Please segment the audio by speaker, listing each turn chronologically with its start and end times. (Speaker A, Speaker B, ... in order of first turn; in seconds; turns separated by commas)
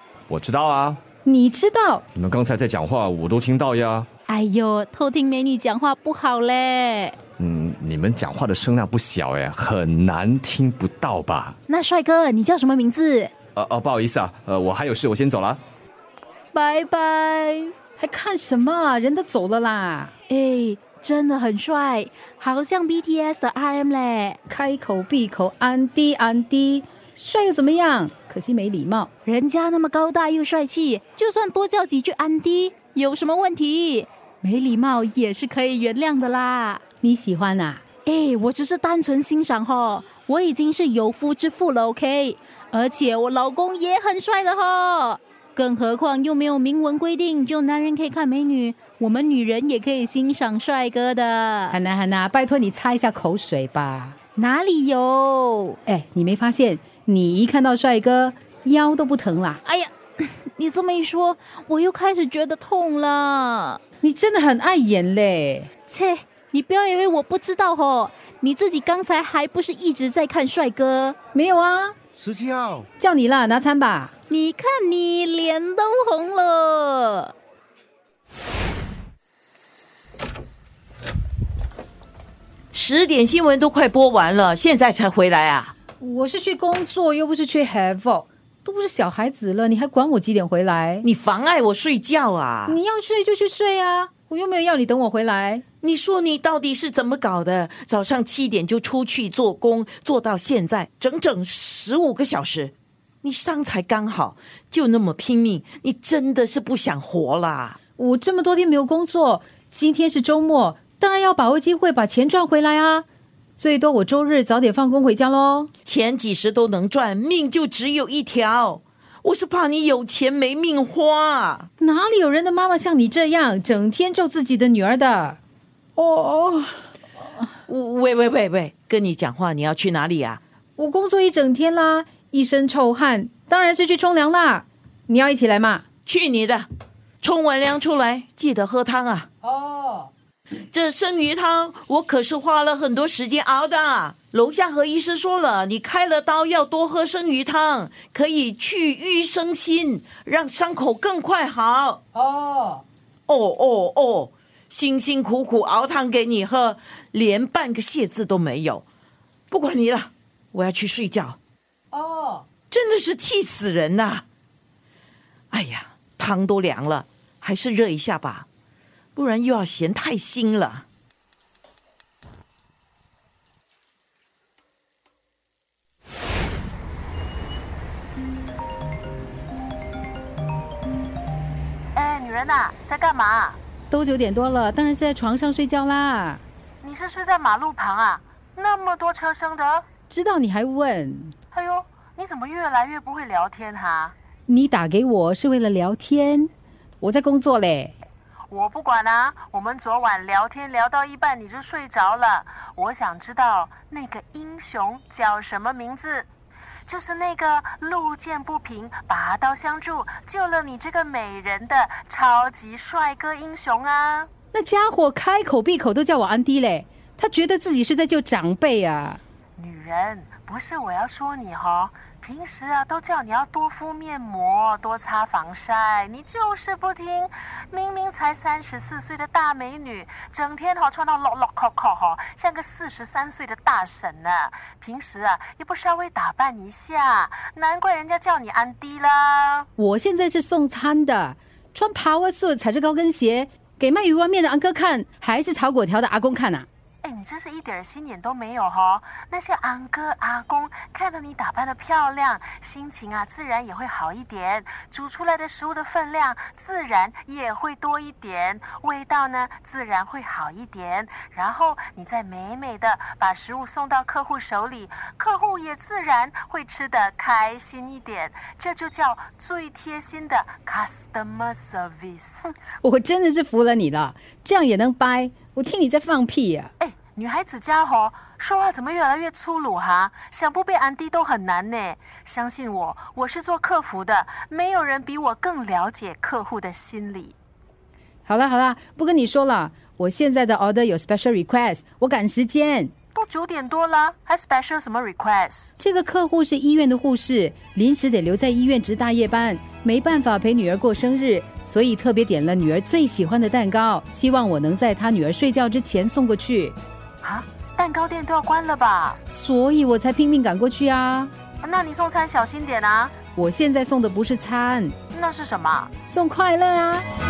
Speaker A: 0.3-1.0, Speaker B: 1.2-2.0, Speaker A: 2.1-4.1, Speaker C: 4.3-7.2, Speaker A: 7.4-11.6, Speaker C: 11.7-13.3, Speaker A: 13.6-15.6, Speaker C: 16.5-17.7, Speaker B: 18.0-20.1, Speaker C: 20.3-24.4, Speaker B: 24.5-29.1, Speaker C: 29.2-36.8, Speaker B: 37.0-37.8, Speaker C: 38.0-51.8, Speaker B: 51.7-54.2, Speaker C: 54.4-55.8, Speaker B: 55.9-59.6, Speaker C: 59.6-63.8, Speaker B: 64.0-65.7, Speaker C: 65.9-71.2, Speaker B: 71.3-71.9, Speaker B: 73.0-74.1, Speaker C: 74.3-77.3, Speaker D: 82.7-85.7, Speaker B: 86.0-91.1, Speaker D: 91.0-92.8, Speaker B: 92.7-95.6, Speaker D: 95.8-107.8, Speaker B: 108.0-113.0, Speaker B: 113.6-115.7, Speaker D: 115.8-121.7, Speaker B: 121.8-125.4, Speaker D: 126.0-126.5, Speaker D: 127.7-130.4, Speaker B: 130.8-135.8, Speaker D: 136.1-136.7, Speaker D: 137.2-139.3, Speaker B: 139.4-140.1, Speaker D: 140.7-152.0, Speaker B: 152.1-152.8, Speaker D: 153.3-158.8, Speaker D: 159.5-161.4, Speaker B: 161.9-162.5, Speaker D: 162.7-164.2, Speaker D: 165.5-168.4, Speaker D: 169.2-170.8, Speaker E: 181.9-183.6, Speaker B: 183.9-186.4, Speaker E: 186.8-189.8, Speaker B: 190.1-191.3, Speaker E: 191.5-194.1, Speaker B: 194.5-196.5, Speaker B: 197.0-197.9, Speaker E: 198.5-206.3, Speaker E: 206.9-214.3, Speaker B: 214.5-219.2, Speaker E: 219.6-239.7, Speaker B: 239.8-246.7, Speaker E: 247.0-272.5, Speaker B: 272.8-276.7, Speaker E: 276.8-287.3, Speaker B: 288.2-292.9, Speaker E: 293.1-295.7, Speaker B: 295.8-306.8, Speaker E: 307.2-309.2, Speaker B: 309.3-311.3, Speaker E: 311.6-313.1, Speaker B: 313.3-314.9, Speaker E: 315.1-315.9, Speaker B: 316.1-317.0